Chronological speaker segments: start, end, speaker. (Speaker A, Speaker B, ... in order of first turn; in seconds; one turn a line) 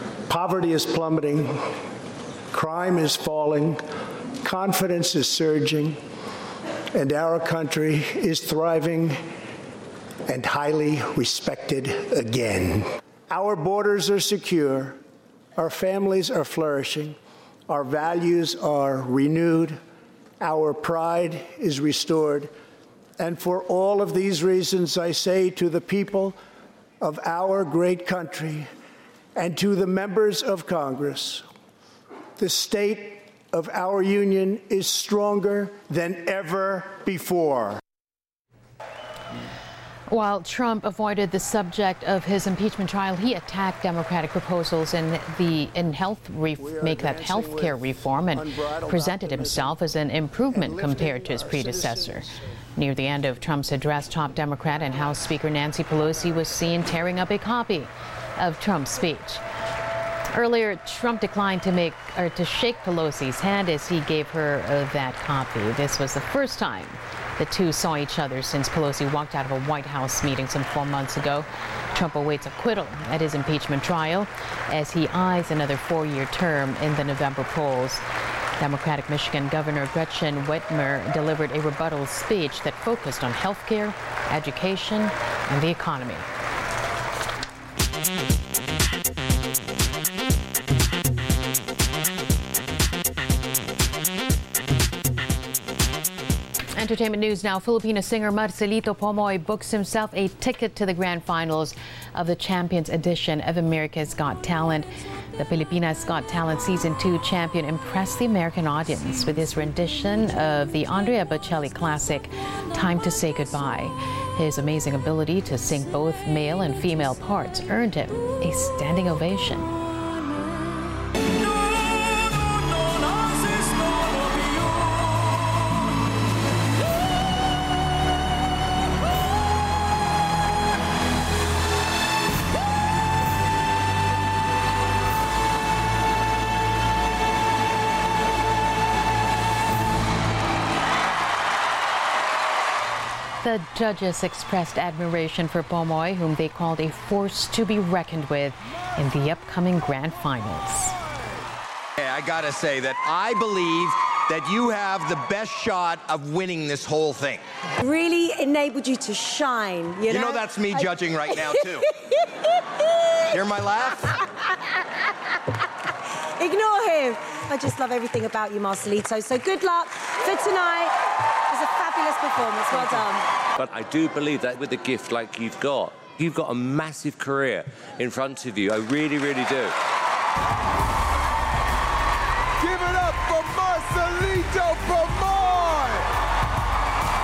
Speaker A: 0.3-1.6
Speaker A: 2.5-3.8
Speaker A: 4.4-6.0
Speaker A: 6.9-9.2
Speaker A: 10.3-15.0
Speaker A: 15.6-17.2
Speaker A: 17.7-19.8
Speaker A: 20.4-22.5
Speaker A: 23.2-26.4
Speaker A: 27.0-28.7
Speaker A: 29.4-31.4
Speaker A: 32.4-37.8
Speaker B: 40.1-59.4
Speaker A: 46.6-49.8
Speaker A: 50.5-52.5
Speaker B: 60.3-78.0
Speaker B: 78.6-86.3
Speaker B: 96.7-119.8
Speaker B: 143.4-151.0
Speaker C: 152.0-157.4
Speaker D: 157.8-162.2
Speaker C: 160.2-161.8
Speaker C: 163.4-163.9
Speaker D: 166.4-171.0
Speaker D: 171.5-173.3
Speaker E: 173.6-179.7
Speaker F: 182.6-185.9